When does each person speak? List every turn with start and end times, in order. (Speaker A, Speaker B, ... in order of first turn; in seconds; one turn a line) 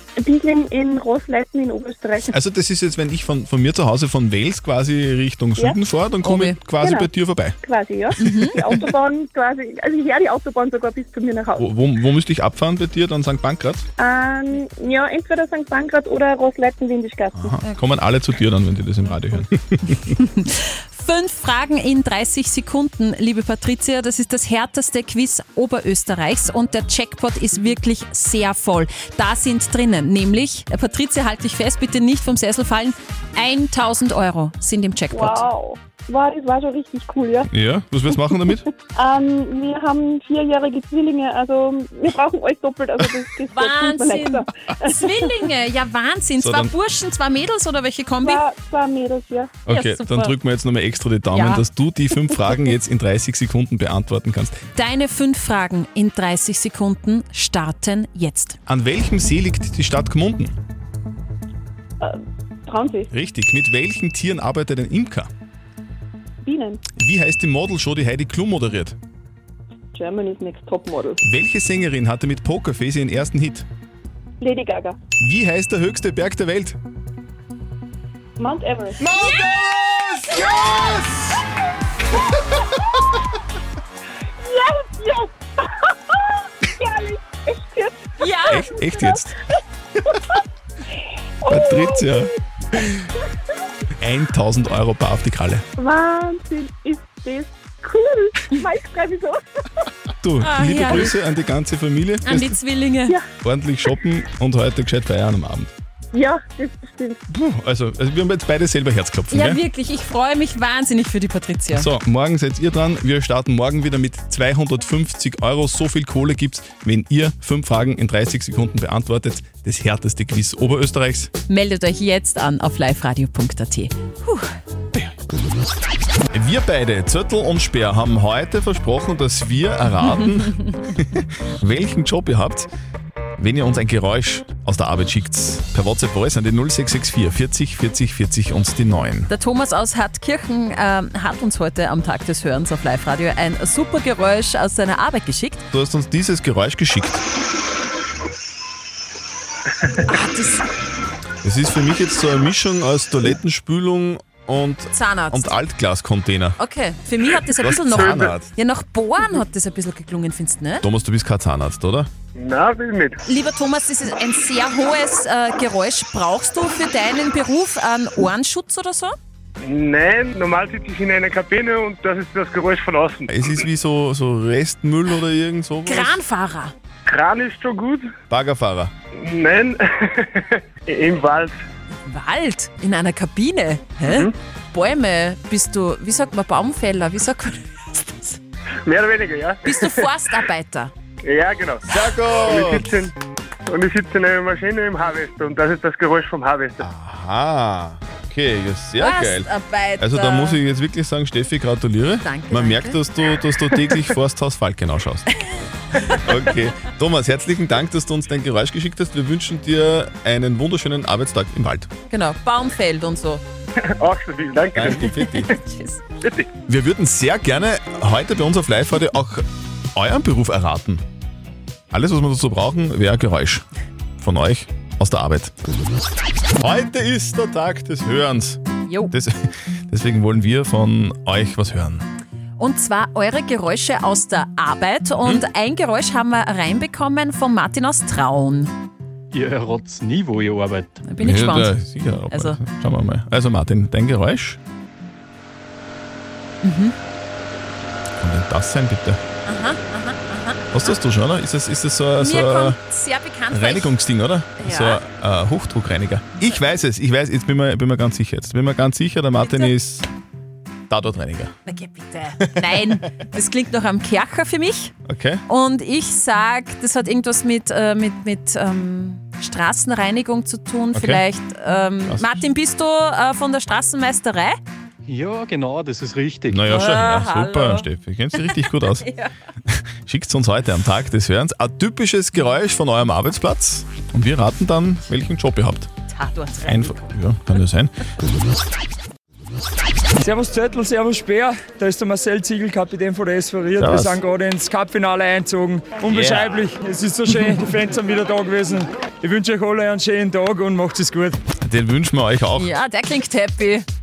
Speaker A: 0.2-2.3
Speaker B: 2.3-7.6
Speaker C: 6.2-6.6
Speaker A: 6.8-7.1
Speaker A: 7.6-11.6
Speaker C: 8.2-8.7
Speaker B: 11.6-13.8
Speaker A: 14.0-17.5
Speaker B: 17.4-20.1
Speaker C: 20.2-35.5
Speaker A: 35.1-37.5
Speaker B: 37.5-38.6
Speaker A: 39.0-45.3
Speaker C: 43.5-48.5
Speaker B: 46.4-46.7
Speaker A: 48.2-49.5
Speaker B: 49.6-54.6
Speaker C: 49.7-50.3
Speaker C: 51.3-51.6
Speaker C: 54.8-58.6
Speaker B: 58.7-60.5
Speaker A: 62.0-63.1
Speaker B: 63.1-65.3
Speaker A: 66.4-66.8
Speaker B: 67.0-69.0
Speaker A: 69.9-71.2
Speaker B: 71.2-73.7
Speaker A: 74.4-75.0
Speaker B: 75.2-76.8
Speaker A: 78.4-79.0
Speaker C: 79.1-79.5
Speaker A: 84.4-85.3
Speaker A: 86.8-88.1
Speaker C: 88.2-88.7
Speaker B: 88.5-89.4
Speaker A: 91.4-92.3
Speaker B: 91.5-92.3
Speaker B: 94.0-95.6
Speaker A: 95.8-99.4
Speaker B: 100.2-102.6
Speaker C: 100.4-101.1
Speaker C: 102.2-103.2
Speaker B: 103.4-105.7
Speaker A: 106.1-107.2
Speaker B: 107.3-109.6
Speaker C: 109.3-111.9
Speaker B: 111.7-121.3
Speaker C: 121.5-124.5
Speaker B: 126.3-132.7
Speaker B: 133.4-139.3
Speaker C: 139.3-145.6
Speaker B: 145.7-147.2
Speaker C: 150.1-150.6
Speaker B: 151.4-156.6
Speaker C: 154.9-155.6
Speaker C: 156.6-160.8
Speaker B: 157.6-158.5
Speaker D: 158.0-158.3
Speaker B: 160.8-162.1
Speaker D: 162.4-163.2
Speaker C: 163.2-169.1
Speaker D: 169.6-173.3
Speaker B: 173.3-176.2
Speaker C: 175.9-176.7
Speaker D: 177.1-178.1
Speaker B: 178.3-178.9
Speaker D: 179.2-180.2
Speaker D: 180.9-181.5
Speaker C: 182.1-188.4
Speaker D: 184.1-184.3
Speaker D: 188.9-190.1
Speaker C: 189.6-190.9
Speaker D: 191.2-191.8
Speaker B: 191.9-192.9
Speaker D: 192.4-193.1
Speaker D: 193.7-196.8
Speaker B: 196.8-205.2
Speaker C: 199.0-200.6
Speaker C: 202.2-203.0
Speaker B: 206.0-211.9
Speaker C: 212.1-213.4
Speaker D: 214.0-215.1
Speaker B: 214.8-215.5
Speaker C: 215.0-216.0
Speaker D: 216.2-216.5
Speaker B: 216.7-219.4
Speaker B: 219.9-221.0
Speaker B: 221.9-223.6
Speaker B: 224.2-225.5
Speaker B: 226.6-228.6
Speaker C: 228.9-229.1
Speaker B: 229.1-232.1
Speaker C: 232.6-238.7
Speaker E: 239.3-241.1
Speaker C: 241.1-241.8
Speaker B: 241.2-244.6
Speaker C: 242.3-242.6
Speaker C: 246.6-246.9
Speaker B: 248.2-249.2
Speaker C: 249.4-251.0
Speaker B: 250.7-252.8
Speaker C: 252.2-253.9
Speaker B: 253.5-260.1
Speaker C: 254.6-255.0
Speaker C: 259.4-259.7
Speaker B: 260.9-261.5
Speaker C: 261.6-264.9
Speaker B: 262.4-262.8
Speaker B: 265.1-265.4
Speaker C: 265.5-274.6
Speaker B: 270.9-271.2
Speaker B: 272.1-272.4
Speaker E: 275.1-276.6
Speaker B: 276.5-279.1
Speaker C: 276.6-277.9
Speaker C: 278.4-279.3
Speaker B: 279.7-285.9
Speaker C: 286.1-287.0
Speaker B: 286.6-287.9
Speaker F: 290.2-301.4
Speaker B: 293.8-294.2
Speaker B: 296.1-296.5
Speaker B: 301.6-302.7
Speaker C: 302.6-303.9